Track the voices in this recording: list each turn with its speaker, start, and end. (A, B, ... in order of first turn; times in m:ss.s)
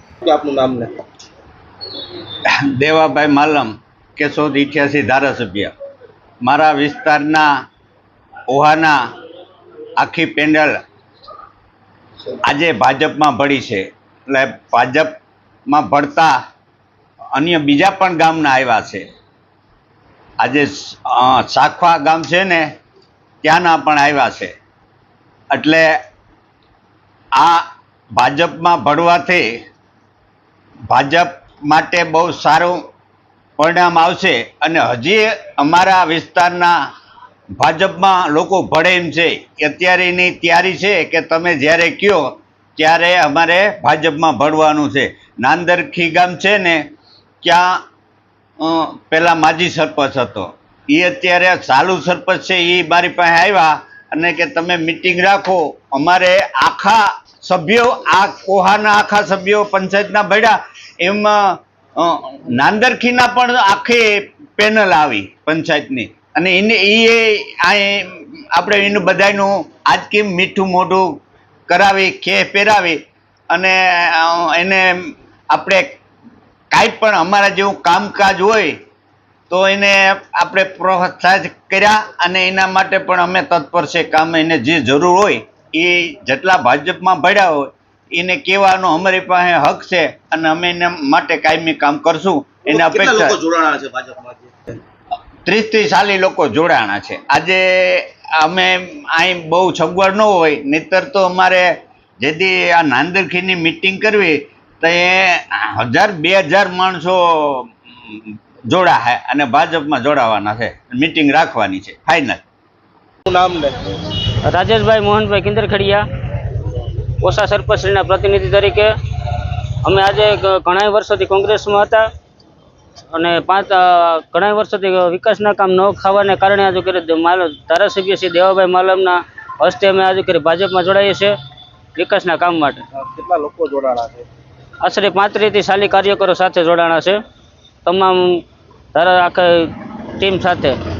0:00.2-0:00.9 A
0:02.5-0:05.7 B
0:06.4-0:07.5 B
0:08.5-0:09.0 B
0:10.0-0:10.8 B
0:12.4-0:15.2 B
0:15.7-0:16.4 B
0:17.3-0:19.0 B
0:20.4-0:22.7 B
0:23.4-0:24.5 B
0:25.5-0:25.9 B
0:27.4-0:27.6 B
0:28.2-0:29.5 B
0:30.9-0:32.8 B
0:33.6-0:36.8 B
0:37.6-0:46.8 B
0:47.4-0:47.8 B
0:48.6-1:13.0 B
1:13.5-1:16.0 B
1:16.7-1:18.7 B
1:19.5-1:33.4 B
1:32.7-1:34.8 A
1:35.4-1:52.4 B
1:53.3-1:53.9 A
1:54.4-1:56.6 C
1:57.2-2:02.1 C
2:03.1-2:11.3 C
2:12.0-2:12.8 C
2:12.9-2:14.2 A
2:14.8-2:17.2 C
2:17.8-2:20.8 C